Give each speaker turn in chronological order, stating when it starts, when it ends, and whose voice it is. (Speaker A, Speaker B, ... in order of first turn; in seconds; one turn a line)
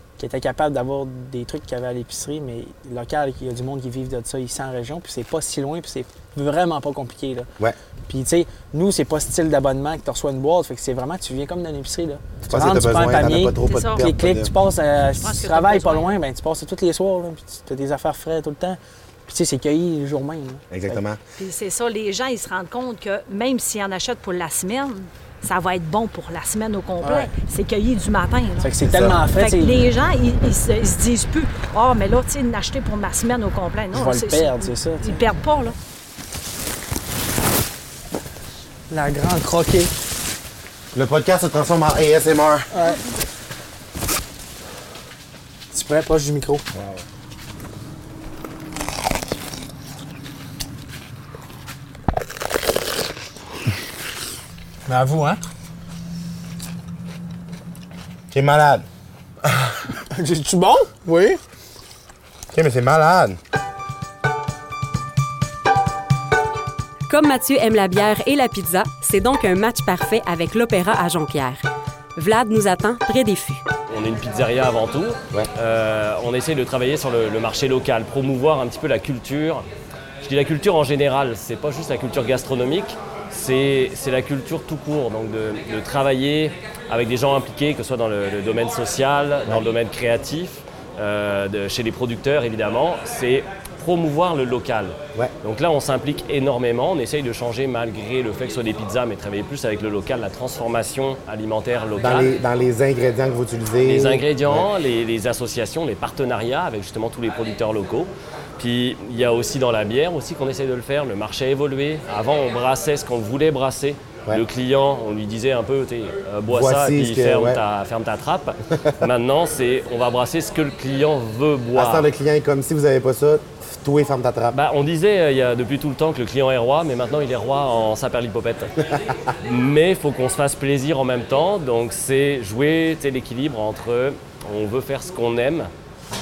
Speaker A: 0.2-7.5
Speaker A: 8.1-21.0
Speaker B: 12.4-14.5
Speaker C: 13.6-14.1
Speaker C: 15.2-16.2
Speaker B: 20.7-21.2
Speaker C: 21.4-35.8
Speaker A: 27.0-27.3
Speaker A: 28.6-29.9
Speaker B: 28.8-29.2
Speaker A: 33.9-35.2
Speaker A: 38.9-39.9
Speaker B: 40.9-42.7
Speaker A: 42.7-43.0
Speaker A: 45.7-46.6
Speaker B: 46.7-47.0
Speaker A: 54.9-55.4
Speaker B: 58.3-58.9
Speaker A: 60.1-61.4
Speaker B: 62.5-63.4
Speaker D: 67.1-71.6
Speaker D: 72.2-73.6
Speaker E: 73.9-79.7
Speaker E: 80.2-102.3
Speaker B: 102.0-104.7
Speaker E: 103.8-122.1
Speaker B: 116.5-117.6
Speaker B: 121.8-124.6
Speaker E: 124.5-128.7
Speaker E: 129.4-135.7